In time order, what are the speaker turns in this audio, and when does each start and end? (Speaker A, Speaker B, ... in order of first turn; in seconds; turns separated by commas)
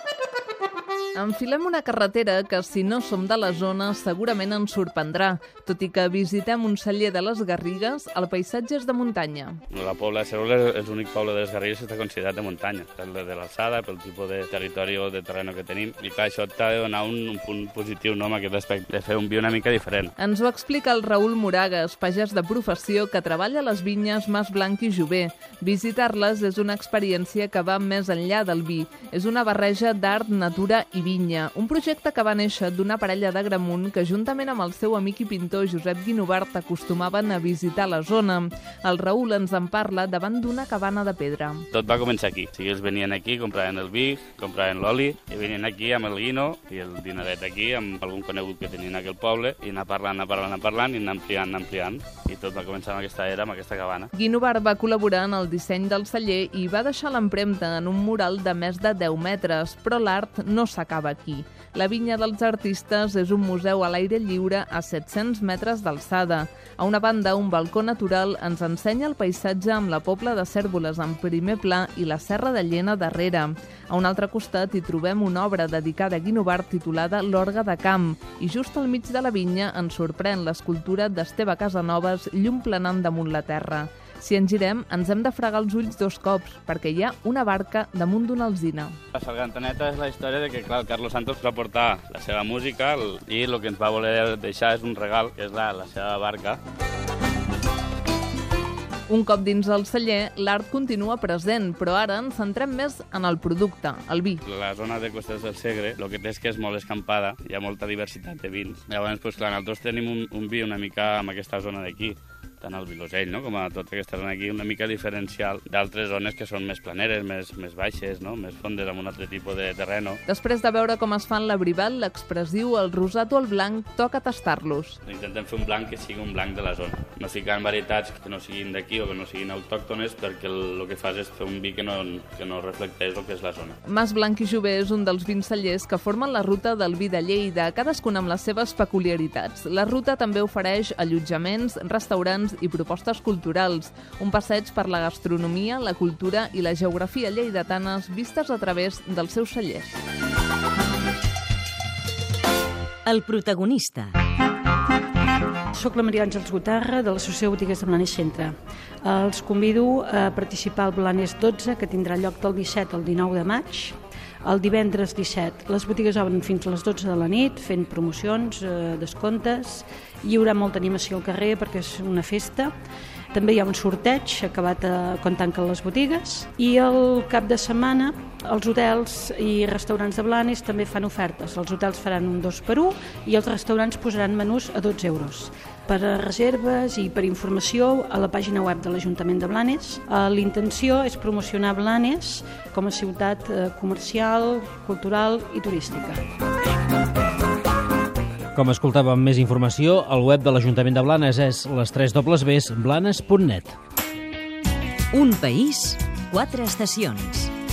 Speaker A: 1.1-9.6, Speaker B: 9.7-20.1, Speaker A: 20.2-41.6, Speaker B: 41.7-54.1, Speaker A: 54.1-89.0, Speaker B: 89.1-96.6, Speaker A: 99.1-104.4, Speaker B: 104.4-120.2, Speaker A: 120.3-125.0, Speaker B: 125.0-133.8, Speaker A: 133.8-150.0, Speaker C: 153.0-154.2, Speaker D: 155.7-172.7, Speaker D: 173.3-196.2, Speaker E: 198.5-203.8, Speaker C: 205.1-207.5